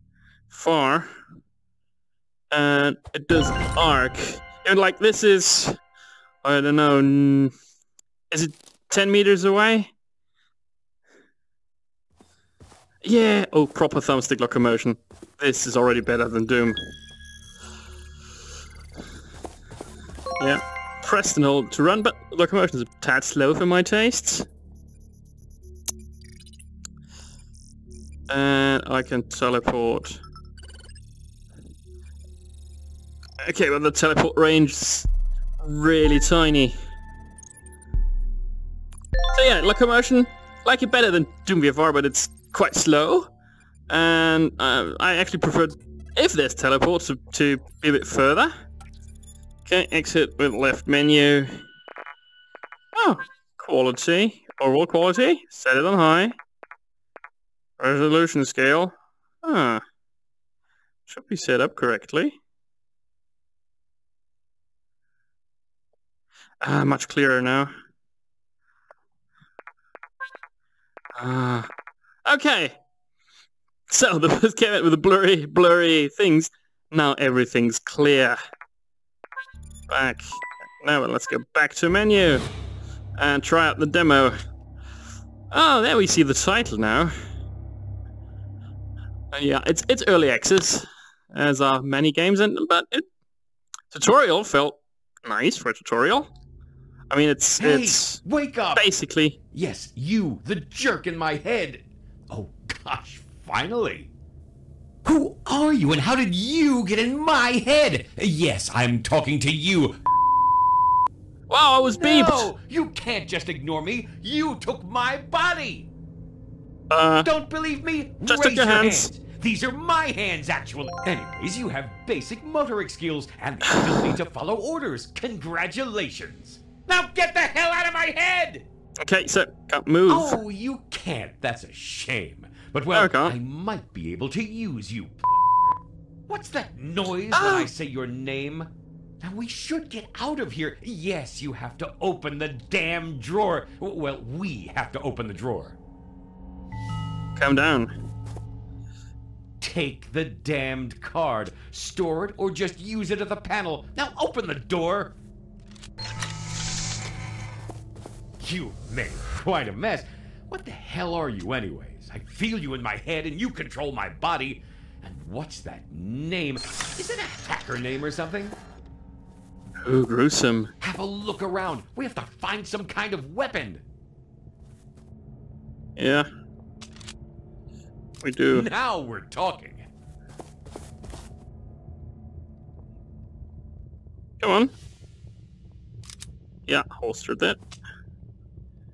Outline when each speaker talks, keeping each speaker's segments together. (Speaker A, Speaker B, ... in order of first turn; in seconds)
Speaker A: 0.5-1.1, 2.5-5.8, 6.4-7.5, 8.3-9.9, 13.0-16.8, 20.4-24.5, 28.3-30.2, 33.4-35.1, 35.6-36.8, 39.3-43.3, 43.9-48.5, 49.7-51.6, 53.0-56.4, 57.8-59.8, 61.1-62.4, 66.6-67.7, 71.2-71.7, 72.2-72.8, 73.9-78.4, 79.9-82.5, 83.2-84.4, 85.5-87.1, 89.3-93.1, 93.9-96.3, 97.1-98.2, 98.7-99.4, 111.5-112.5, 116.9-117.3, 118.3-119.1, 123.7-124.0, 129.0-130.4, 132.9-133.4, 137.3-137.7, 147.4-147.9, 169.8-170.7, 176.0-176.3, 178.2-178.7, 184.4-184.7, 186.7-187.6
Speaker B: 97.6-98.9, 99.5-104.1, 105.0-110.0, 111.8-115.9, 117.2-128.7, 130.1-138.7, 139.2-145.8, 149.6-155.2, 158.4-168.6, 170.8-173.8, 178.5-179.9